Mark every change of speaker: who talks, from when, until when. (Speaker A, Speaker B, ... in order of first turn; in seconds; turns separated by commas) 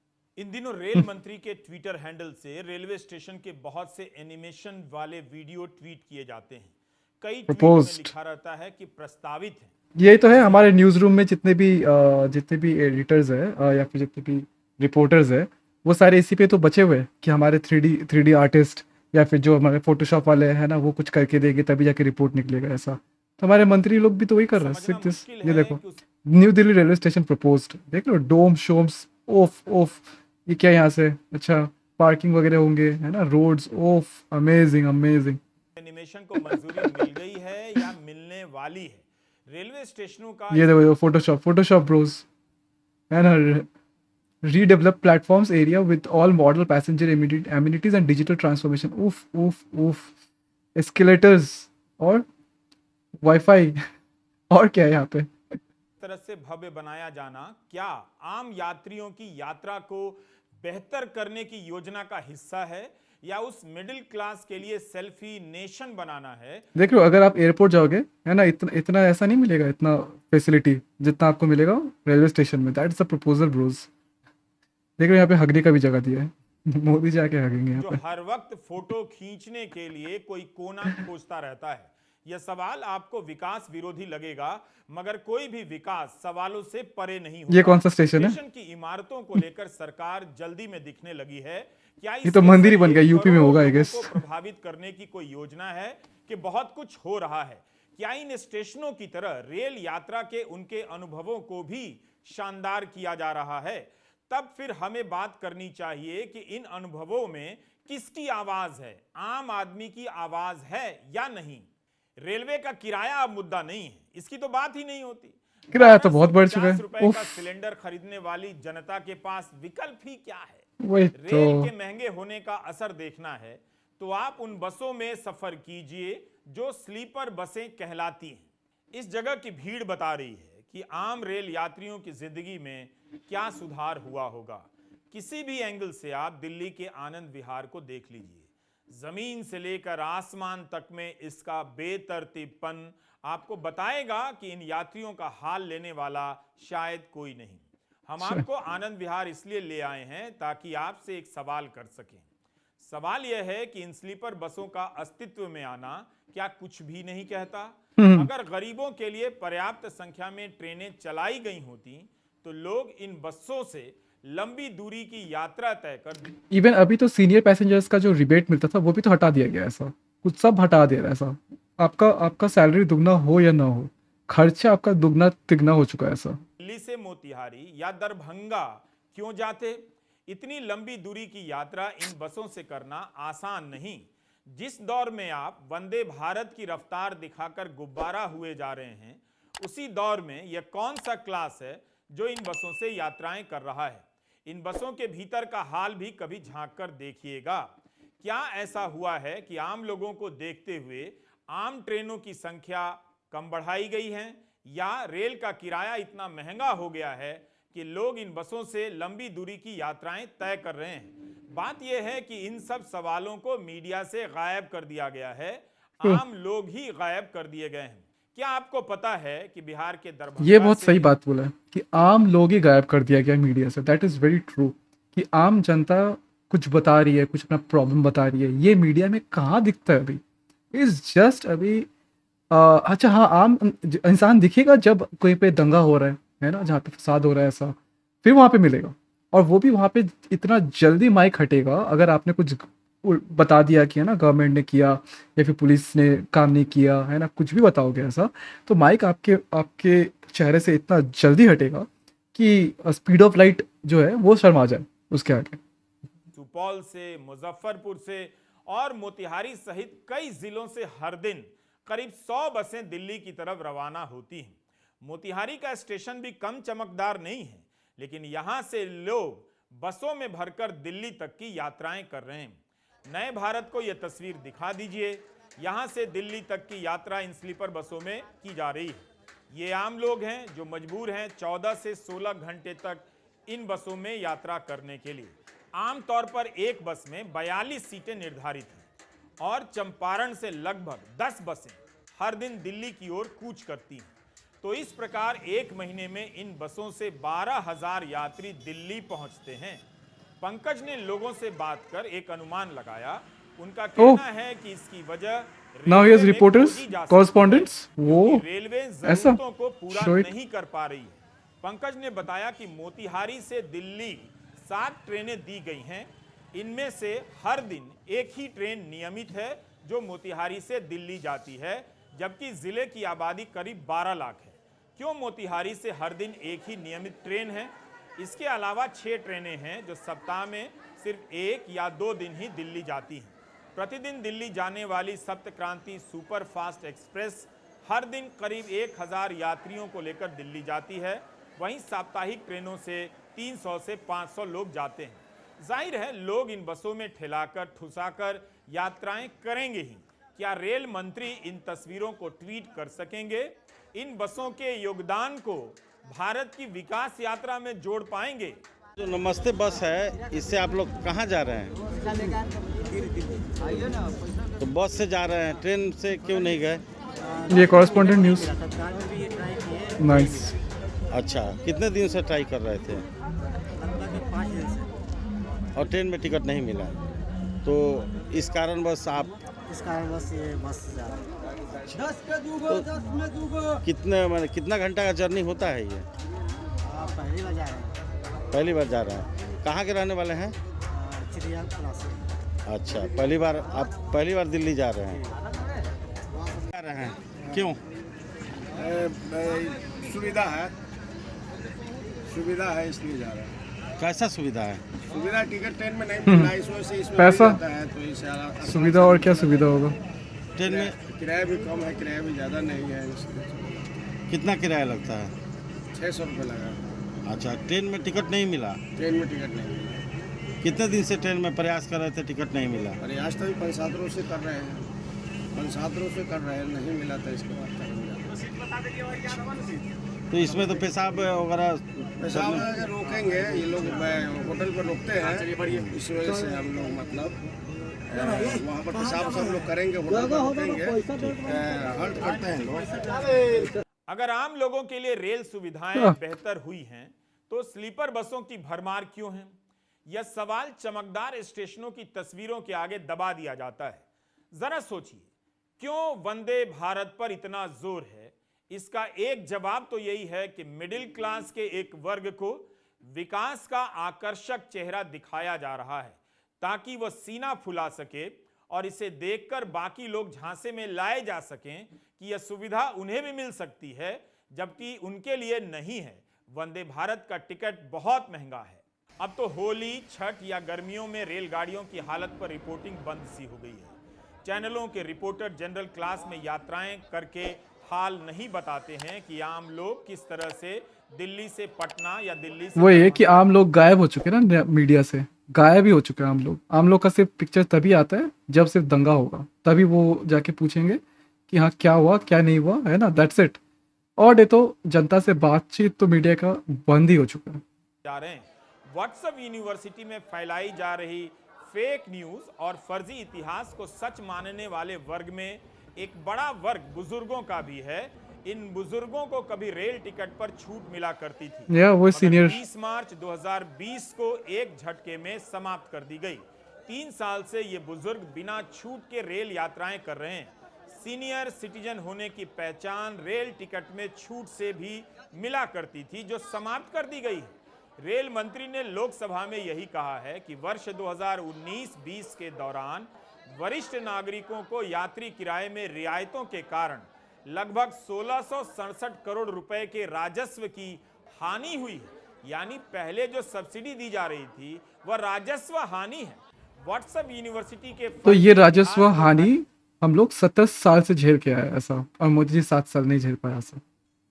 Speaker A: 0.4-9.7, Speaker B: 7.5-8.1, Speaker B: 9.9-35.4, Speaker A: 10.2-10.7, Speaker A: 24.5-26.0, Speaker A: 35.8-40.8, Speaker B: 40.5-42.2, Speaker B: 43.1-43.7, Speaker B: 44.4-50.1, Speaker B: 50.7-52.2, Speaker B: 53.2-53.8, Speaker B: 54.5-55.6, Speaker A: 56.0-66.7, Speaker B: 66.8-73.9, Speaker B: 75.0-78.0, Speaker A: 77.8-111.7, Speaker B: 87.5-88.4, Speaker B: 92.2-94.2, Speaker A: 112.2-152.2, Speaker B: 115.7-117.4, Speaker B: 120.8-121.7, Speaker A: 152.8-166.4, Speaker B: 158.0-158.3, Speaker B: 166.5-176.4, Speaker A: 176.6-197.7, Speaker A: 198.2-221.1, Speaker B: 220.4-230.2, Speaker B: 230.7-231.9, Speaker B: 232.5-255.6, Speaker A: 256.3-288.9, Speaker A: 289.4-294.1, Speaker A: 294.6-299.8, Speaker A: 300.4-358.6, Speaker B: 305.9-308.4, Speaker B: 309.0-310.3, Speaker C: 359.0-361.8, Speaker D: 361.9-364.0, Speaker C: 364.6-366.8, Speaker D: 367.2-370.6, Speaker B: 367.5-368.6, Speaker B: 370.0-370.5, Speaker C: 371.1-373.1, Speaker D: 373.7-374.9, Speaker C: 375.7-377.0, Speaker C: 377.6-379.3, Speaker D: 379.6-381.3, Speaker C: 383.8-386.1, Speaker D: 386.8-388.0, Speaker C: 388.5-390.6, Speaker D: 390.9-392.3, Speaker C: 392.7-395.2, Speaker C: 396.7-397.8, Speaker E: 398.7-400.8, Speaker E: 402.2-403.5, Speaker C: 404.0-404.8, Speaker E: 405.0-409.8, Speaker B: 406.2-406.5, Speaker B: 407.2-407.6, Speaker B: 408.6-410.0, Speaker C: 410.6-410.9, Speaker E: 410.6-413.9, Speaker C: 414.3-415.3, Speaker E: 415.9-416.8, Speaker C: 417.2-418.8, Speaker E: 418.9-420.0, Speaker C: 420.6-423.0, Speaker E: 423.0-424.9, Speaker E: 425.5-428.4, Speaker E: 429.2-429.6, Speaker C: 430.3-432.7, Speaker E: 432.2-437.4, Speaker E: 438.1-443.7, Speaker A: 444.1-449.5, Speaker A: 450.1-455.3, Speaker A: 455.8-493.5, Speaker B: 492.8-503.6, Speaker B: 504.2-507.6, Speaker A: 508.0-559.5, Speaker B: 521.7-522.6, Speaker B: 558.2-563.8